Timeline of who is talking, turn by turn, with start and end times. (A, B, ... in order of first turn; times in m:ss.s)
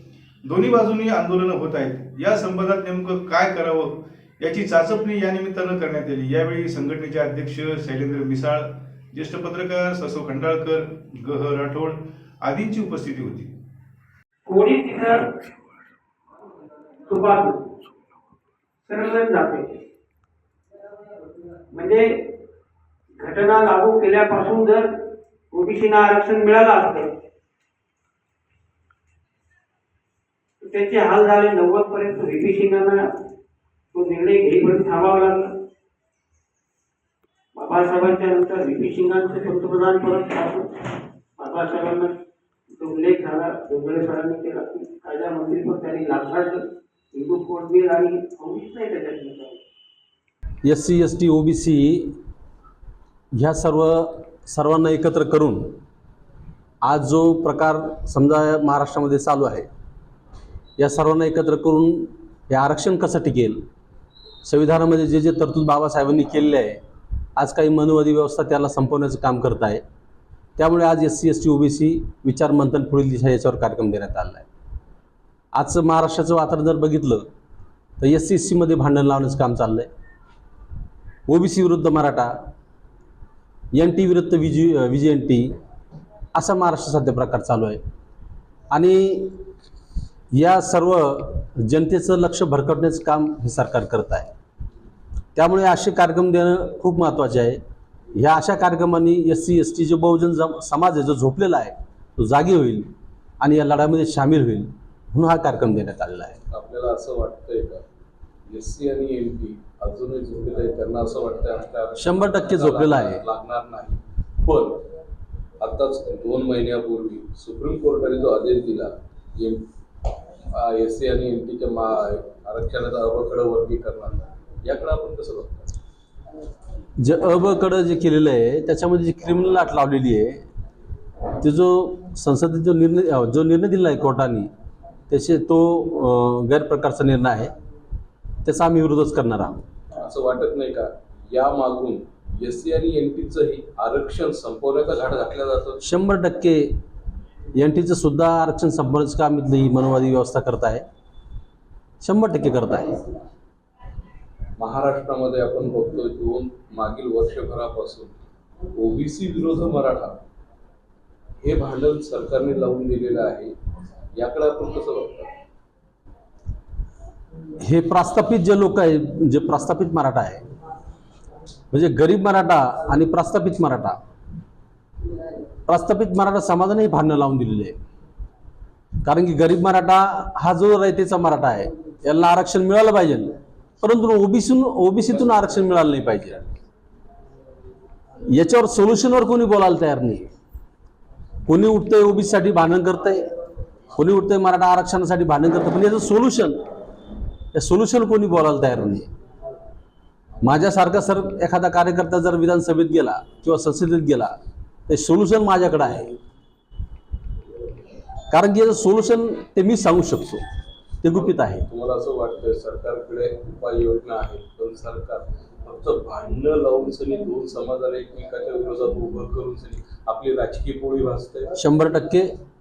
0:00.4-0:13.5 A
0:14.4-0:15.3 B
0:17.1-0:17.6 B
0:18.8-0:19.8 B
0:21.7-0:22.1 B
0:23.2-0:24.9 B
0:25.5-0:27.1 B
0:30.6-0:33.0 B
0:33.9-0:35.5 B
0:37.5-0:40.7 B
0:41.4-0:42.1 B
0:42.8-0:49.6 B
0:50.6-0:52.2 C
0:53.3-0:55.8 C
0:56.8-0:59.7 C
1:00.8-1:03.6 C
1:04.4-1:06.8 C
1:07.4-1:09.8 C
1:10.6-1:14.4 C
1:15.5-1:17.3 C
1:18.0-1:19.9 C
1:21.3-1:22.5 C
1:23.7-1:25.6 C
1:26.3-1:27.8 C
1:28.7-1:29.4 C
1:30.3-1:34.3 C
1:35.3-1:37.6 C
1:38.1-1:46.4 C
1:46.5-1:47.8 D
1:48.5-1:54.8 D
1:52.0-1:53.2 C
1:55.6-1:59.6 D
2:00.5-2:05.6 D
2:07.0-2:10.4 C
2:11.4-2:14.5 C
2:15.1-2:17.5 C
2:18.4-2:19.6 C
2:20.0-2:25.8 D
2:25.8-2:26.8 C
2:27.5-2:30.9 C
2:32.0-2:33.1 C
2:34.6-2:38.2 D
2:38.7-2:40.2 D
2:41.4-2:43.5 D
2:44.1-2:45.3 D
2:47.6-2:50.4 C
2:51.7-2:54.0 C
2:55.7-2:57.8 C
2:59.0-3:06.4 C
3:08.3-3:10.3 C
3:11.5-3:13.3 C
3:14.0-3:16.6 C
3:17.5-3:19.1 C
3:20.4-3:24.4 C
3:24.9-3:26.1 C
3:28.3-3:30.4 C
3:31.0-3:31.6 C
3:31.7-3:41.6 D
3:41.6-3:42.3 C